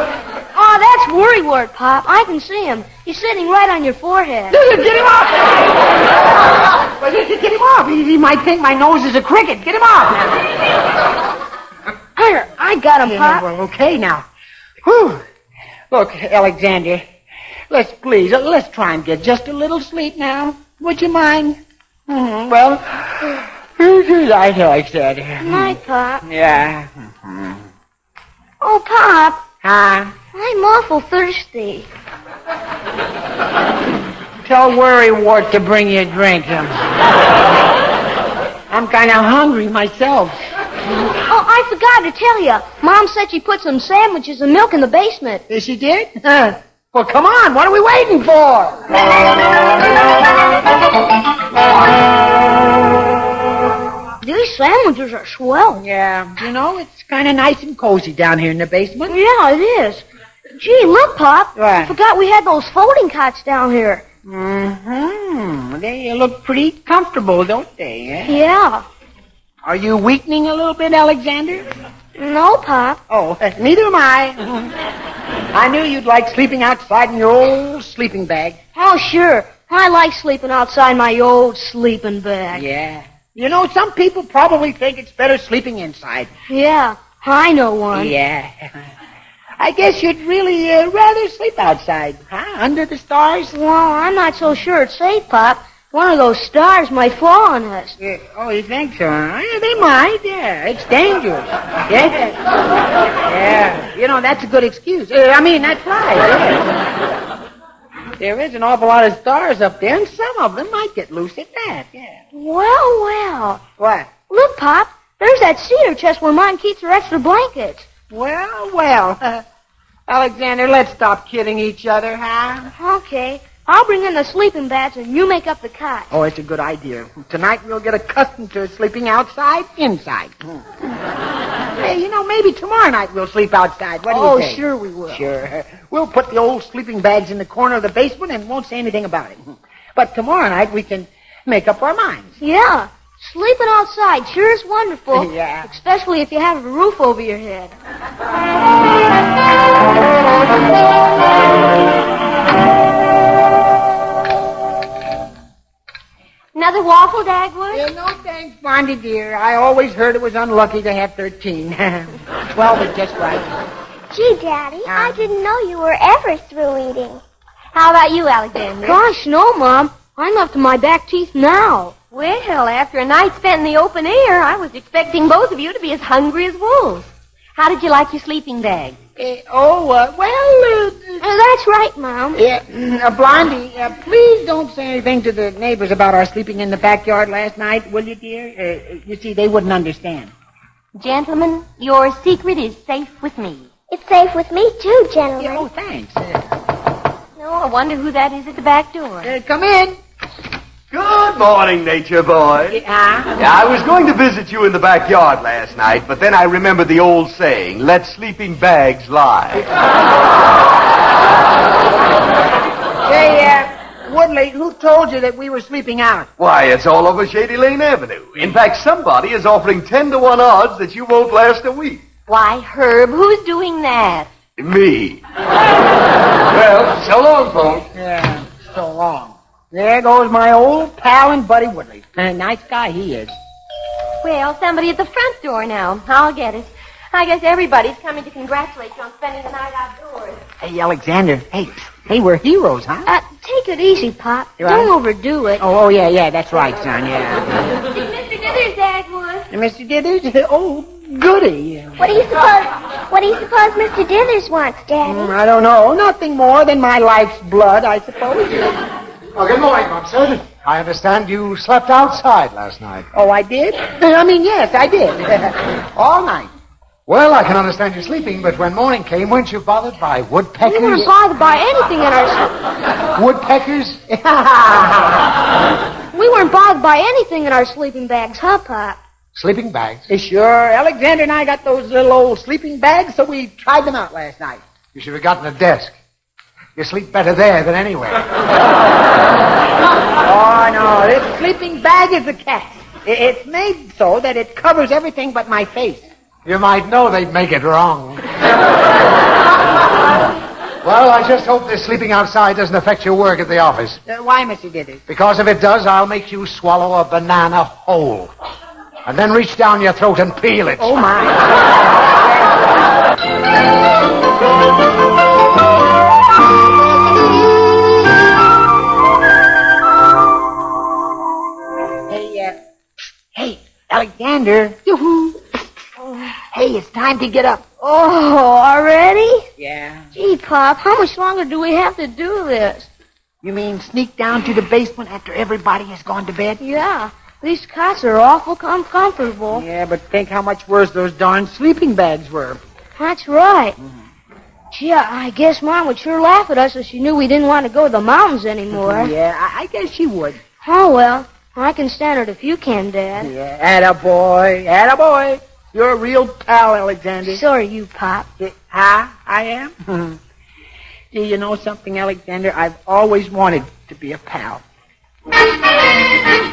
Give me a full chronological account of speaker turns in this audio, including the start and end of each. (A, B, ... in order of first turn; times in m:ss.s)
0:00.5-0:04.6 A
0:04.5-0:05.8 B
0:06.8-0:10.4 B
0:12.2-0:13.4 A
0:13.0-0:14.3 B
0:14.8-0:15.2 B
0:15.9-0:17.0 B
0:17.7-0:27.6 B
0:25.4-0:26.2 A
0:28.6-0:29.4 A
0:29.6-0:30.1 B
0:30.3-0:31.9 A
0:34.4-0:36.8 B
0:38.7-0:40.4 B
0:41.3-0:45.4 A
0:45.5-0:48.9 B
0:54.2-0:55.8 A
0:55.8-0:59.2 B
0:59.1-1:00.0 A
1:00.6-1:04.0 A
1:01.6-1:02.0 B
1:04.2-1:08.4 B
1:08.3-1:08.8 A
1:09.6-1:11.7 B
1:12.2-1:13.0 A
1:13.1-1:14.8 B
1:15.5-1:18.6 B
1:18.8-1:22.7 A
1:22.5-1:26.3 B
1:26.5-1:28.1 A
1:27.9-1:28.7 B
1:29.6-1:33.6 B
1:33.5-1:38.0 A
1:38.0-1:42.4 B
1:43.2-1:46.7 B
1:48.2-1:52.2 B
1:52.3-1:53.6 A
1:53.8-1:54.1 B
1:54.3-1:57.9 A
1:58.1-1:59.4 B
2:00.1-2:02.7 B
2:02.8-2:06.1 A
2:06.1-2:10.6 B
2:11.8-2:22.4 B
2:14.1-2:15.2 A
2:22.4-2:27.7 A
2:25.1-2:25.7 B
2:36.6-2:37.8 C
2:37.7-2:43.5 B
2:44.1-2:47.2 D
2:44.9-2:45.2 B
2:47.7-2:49.0 C
2:48.8-2:51.9 A
2:52.1-2:59.0 C
2:59.2-3:01.2 B
3:01.2-3:02.4 A
3:02.3-3:10.3 B
3:11.0-3:13.7 C
3:13.9-3:15.7 D
3:15.4-3:16.5 B
3:17.4-3:19.3 C
3:19.2-3:20.0 B
3:20.9-3:22.8 E
3:22.7-3:23.5 B
3:23.4-3:29.7 E
3:33.1-3:36.3 B
3:36.4-3:42.0 E
3:42.3-3:44.3 C
3:44.6-3:45.2 E
3:46.5-3:47.9 E
3:47.9-3:53.3 B
3:54.2-4:00.4 C
4:00.6-4:03.1 B
4:03.1-4:05.6 A
4:04.6-4:04.9 B
4:05.6-4:07.6 B
4:07.8-4:09.5 C
4:09.5-4:12.0 B
4:12.0-4:15.3 D
4:15.0-4:18.8 B
4:19.4-4:23.1 F
4:23.1-4:26.5 B
4:27.1-4:31.1 F
4:30.6-4:32.6 A
4:33.2-4:34.1 F
4:34.1-4:35.3 B
4:36.1-4:39.0 A
4:39.3-4:40.1 F
4:40.1-4:44.6 B
4:44.9-4:45.9 F
4:46.8-4:48.2 F
4:50.2-4:56.1 B
4:56.4-4:58.2 F
5:00.8-5:04.0 F
5:04.1-5:05.0 B
5:05.1-5:08.3 F
5:09.1-5:11.0 F
5:10.8-5:12.6 B
5:22.1-5:22.6 B
5:23.3-5:25.6 B
5:26.5-5:27.6 B
5:27.8-5:29.5 A
5:29.6-5:30.1 B
5:30.1-5:32.9 A
5:33.4-5:36.6 B
5:36.6-5:39.6 A
5:39.5-5:42.6 B
5:43.0-5:43.8 A
5:44.7-5:49.1 A
5:48.7-5:50.4 B
5:50.6-5:53.3 A
5:53.2-5:57.4 B
5:57.2-5:58.3 A
5:58.4-6:00.2 B
6:01.1-6:04.6 B